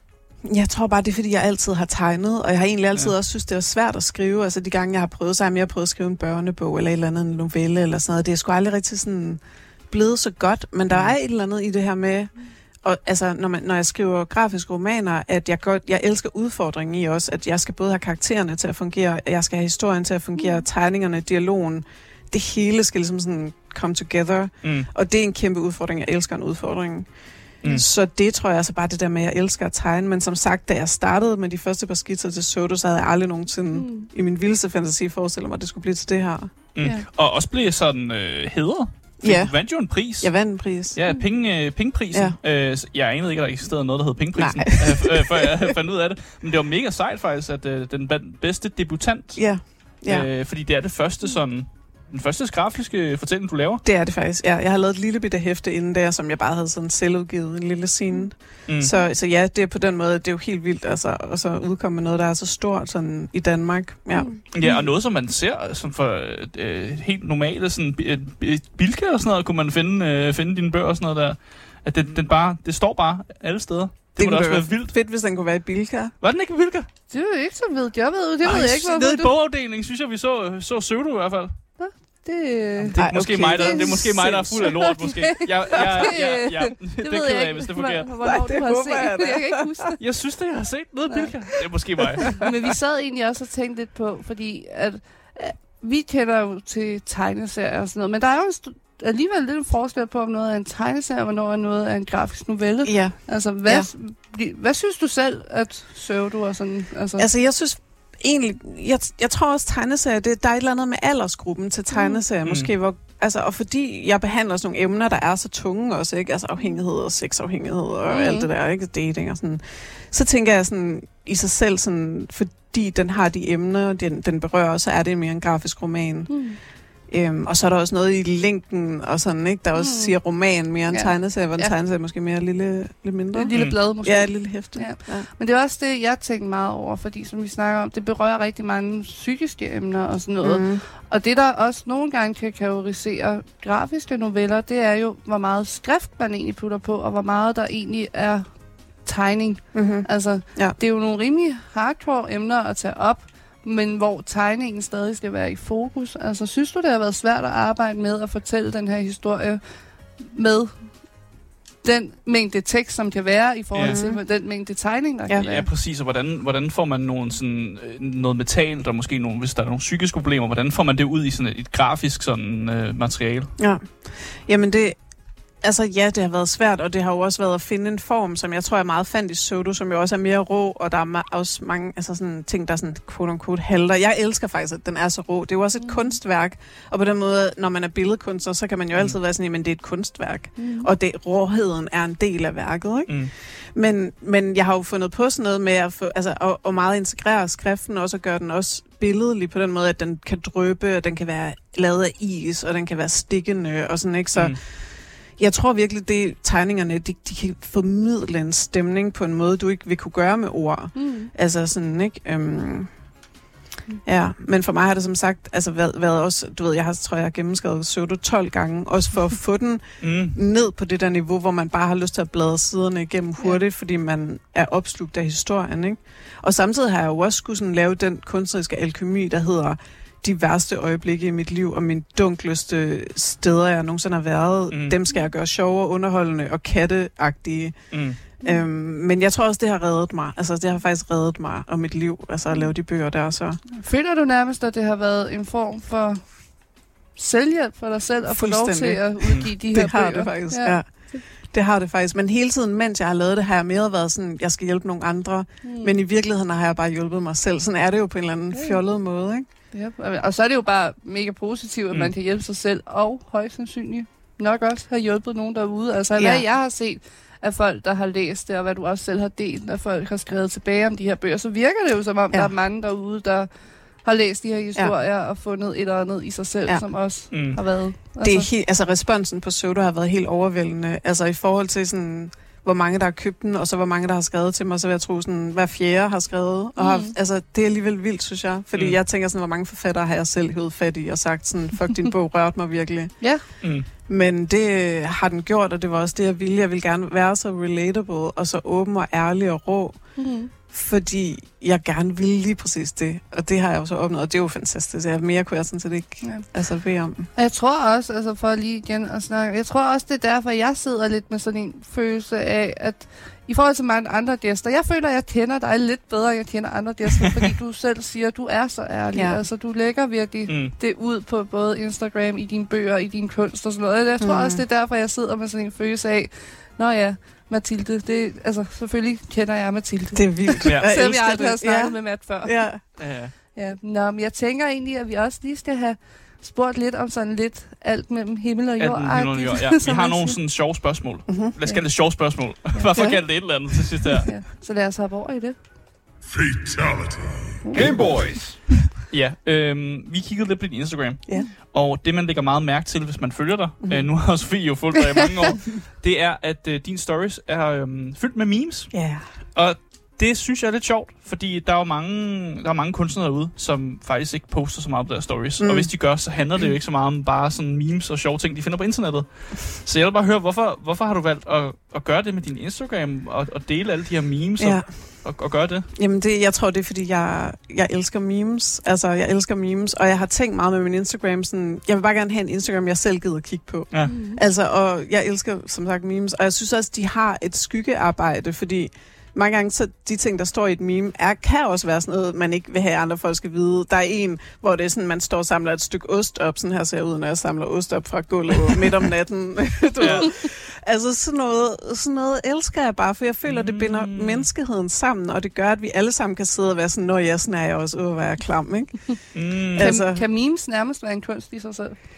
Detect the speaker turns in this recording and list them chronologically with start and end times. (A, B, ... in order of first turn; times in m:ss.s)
0:00.4-0:36.5 A
0:10.9-0:11.2 B
0:24.6-0:24.9 B
0:33.7-0:34.1 C
0:36.7-0:53.8 B
0:36.8-0:37.0 C
0:39.2-0:41.0 A
0:42.1-0:42.4 A
0:44.3-0:45.4 A
0:49.4-0:50.3 A
0:53.8-1:04.4 A
0:58.6-0:58.9 B
1:04.1-1:04.8 C
1:04.5-1:15.0 B
1:14.2-1:16.1 A
1:16.2-1:16.9 B
1:17.1-1:19.3 C
1:18.4-1:21.5 B
1:21.8-1:30.1 C
1:22.8-1:28.1 B
1:22.9-1:24.8 A
1:25.8-1:26.1 A
1:28.2-1:29.9 A
1:30.0-1:32.5 B
1:31.0-1:47.3 C
1:42.8-1:43.9 A
1:47.2-2:15.3 A
1:51.9-1:52.2 C
1:52.4-1:52.7 B
1:58.1-1:58.5 C
2:06.3-2:06.6 C
2:09.7-2:10.4 C
2:10.9-2:11.7 C
2:13.3-2:41.2 C
2:20.4-2:20.8 A
2:29.7-2:30.8 A
2:41.8-2:45.7 C
2:43.7-2:44.0 B
2:43.8-2:44.2 A
2:45.4-2:53.5 B
2:53.6-2:55.0 A
2:55.6-3:32.9 A
3:05.8-3:06.1 C
3:10.6-3:10.9 C
3:30.9-3:31.3 C
3:34.0-4:03.6 A
3:40.0-3:40.4 B
3:54.7-3:55.0 B
3:57.9-3:58.2 B
4:03.7-4:06.5 C
4:07.1-4:11.2 C
4:08.3-4:19.4 A
4:15.6-4:15.9 C
4:18.5-4:18.8 C
4:19.7-4:38.5 C
4:26.2-4:26.4 A
4:37.3-4:37.6 B
4:38.2-5:07.3 A
4:46.8-4:47.1 C
4:53.2-4:53.4 C
4:53.6-4:53.8 B
5:00.2-5:00.5 C
5:06.2-5:06.5 C
5:07.2-5:40.4 C
5:19.1-5:19.4 A
5:20.5-5:20.7 B
5:24.2-5:24.6 A
5:30.1-5:32.8 A
5:33.0-5:33.3 B
5:38.8-5:44.3 B
5:41.2-5:41.6 A
5:41.6-5:42.9 C
5:42.9-5:43.2 A
5:44.2-5:45.6 C
5:46.3-5:48.9 D
5:49.1-6:15.9 B
5:53.8-5:54.1 A
5:58.9-5:59.3 A
6:05.6-6:06.1 A
6:14.6-6:15.4 A
6:15.9-6:50.2 A
6:24.0-6:24.4 C
6:40.0-6:40.3 C
6:40.0-6:40.3 B
6:43.4-6:44.5 B
6:49.3-6:50.0 B
6:49.8-6:52.0 C